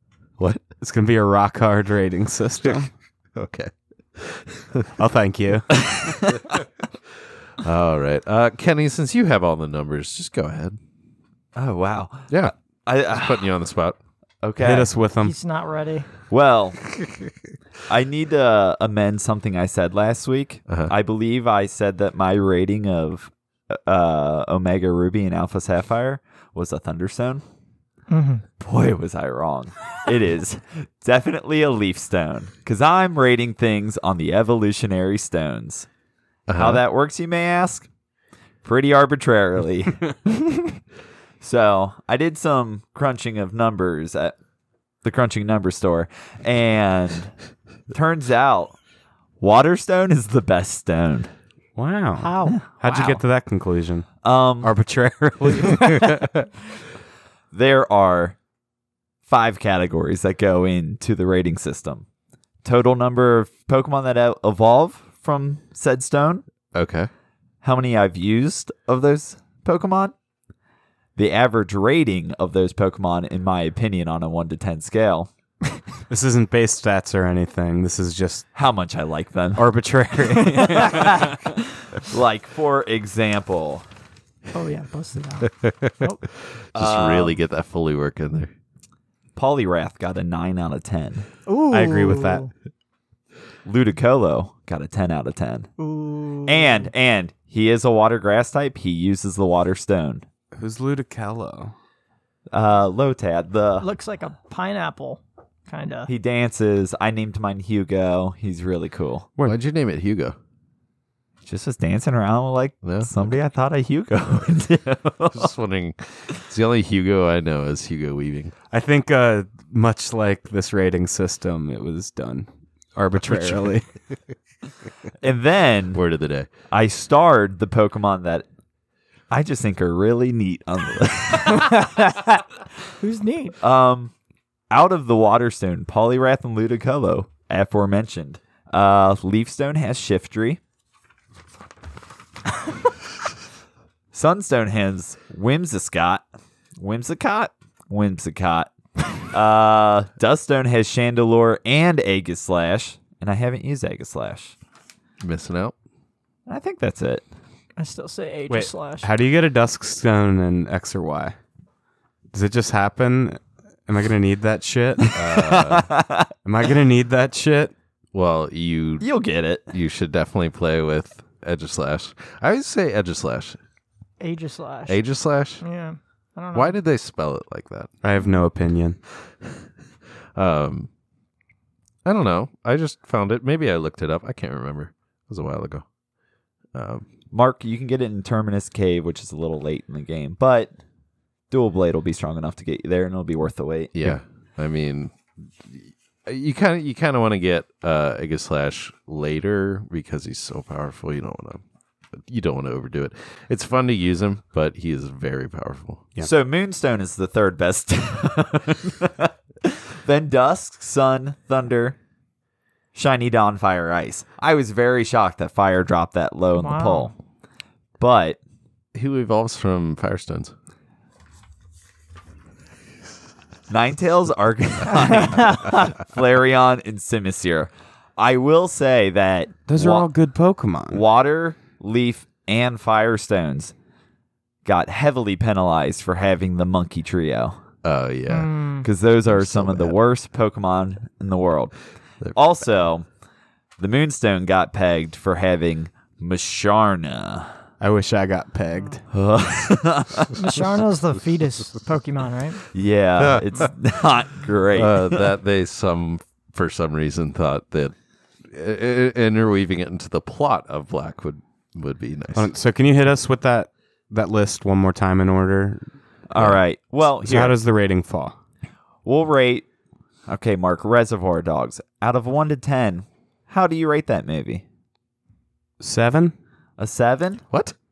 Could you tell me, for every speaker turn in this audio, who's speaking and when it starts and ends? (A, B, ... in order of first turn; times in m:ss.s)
0:00.8-0:02.9 A
0:03.4-0:04.9 B
0:05.0-0:05.8 A
0:05.9-0:06.4 C
0:07.6-0:10.8 B
0:11.6-0:13.5 C
0:13.1-0:14.0 B
0:14.4-0:14.9 C
0:14.6-0:15.4 A
0:15.2-0:16.1 D
0:16.3-0:16.8 C
0:17.9-0:27.4 C
0:28.1-0:28.4 D
0:28.6-0:35.9 C
0:36.5-0:36.8 B
0:36.5-0:37.9 C
0:38.6-0:40.0 C
0:41.4-0:44.4 C
0:45.0-0:47.3 C
0:47.9-0:48.8 C
0:49.4-0:51.3 C
0:51.8-0:54.1 A
0:52.2-0:52.6 D
0:52.5-0:53.2 C
0:54.2-0:54.7 C
0:54.6-0:56.3 A
0:57.5-0:58.4 C
0:59.3-1:02.0 C
1:02.6-1:06.4 C
1:06.7-1:07.1 B
1:07.6-1:10.1 C
1:11.2-1:15.3 C
1:16.1-1:18.5 A
1:18.6-1:23.9 C
1:19.6-1:21.4 A
1:24.5-1:26.2 D
1:25.6-1:26.1 B
1:26.7-1:27.4 C
1:26.7-1:28.5 B
1:29.4-1:31.3 C
1:31.5-1:32.5 D
1:31.7-1:32.4 A
1:33.7-1:35.7 C
1:35.8-1:36.9 D
1:36.4-1:40.2 C
1:40.6-1:41.7 A
1:42.5-1:43.9 C
1:43.8-1:46.1 D
1:46.1-1:49.3 C
1:49.4-1:50.4 B
1:51.5-1:55.5 C
1:52.8-1:53.1 B
1:55.3-1:58.5 B
1:58.7-2:03.9 A
2:03.2-2:03.6 B
2:05.2-2:06.0 C
2:05.9-2:06.5 B
2:06.7-2:08.5 C
2:09.3-2:11.9 C
2:11.7-2:12.4 D
2:13.0-2:13.6 D
2:13.6-2:14.1 C
2:14.7-2:20.6 C
2:24.1-2:26.2 C
2:26.8-2:28.7 C
2:29.3-2:34.6 C
2:35.2-2:35.7 B
2:36.5-2:37.2 C
2:37.8-2:39.1 D
2:39.0-2:41.4 A
2:42.3-2:45.9 A
2:45.1-2:45.9 B
2:45.5-2:46.3 C
2:46.4-2:47.7 A
2:48.1-2:49.0 B
2:49.0-2:49.7 C
2:49.7-2:53.6 B
2:54.2-2:55.0 D
2:54.9-2:55.6 B
2:55.6-2:56.8 D
2:56.5-2:57.9 B
2:58.0-2:59.0 A
3:00.4-3:00.9 B
3:02.0-3:05.9 B
3:06.7-3:07.0 B
3:07.3-3:10.8 C
3:11.5-3:14.0 C
3:13.9-3:15.1 B
3:15.6-3:21.6 B
3:22.1-3:26.1 B
3:26.2-3:32.0 C
3:33.0-3:37.1 C
3:36.6-3:37.1 D
3:38.0-3:38.4 C
3:38.9-3:40.5 B
3:43.7-3:50.1 C
3:49.7-3:51.0 A
3:50.9-3:53.7 C
3:54.6-3:57.6 C
3:57.8-3:58.5 B
3:58.3-3:58.9 D
3:58.8-4:01.7 C
3:59.3-4:00.0 B
4:02.3-4:03.1 C
4:03.8-4:07.5 C
4:07.8-4:09.0 A
4:09.1-4:10.3 C
4:10.4-4:12.6 D
4:12.7-4:15.2 C
4:14.8-4:17.9 B
4:18.4-4:22.5 B
4:22.4-4:25.9 A
4:26.3-4:27.6 C
4:27.1-4:28.4 A
4:29.0-4:29.7 C
4:30.3-4:34.6 C
4:35.8-4:36.4 A
4:36.8-4:37.4 C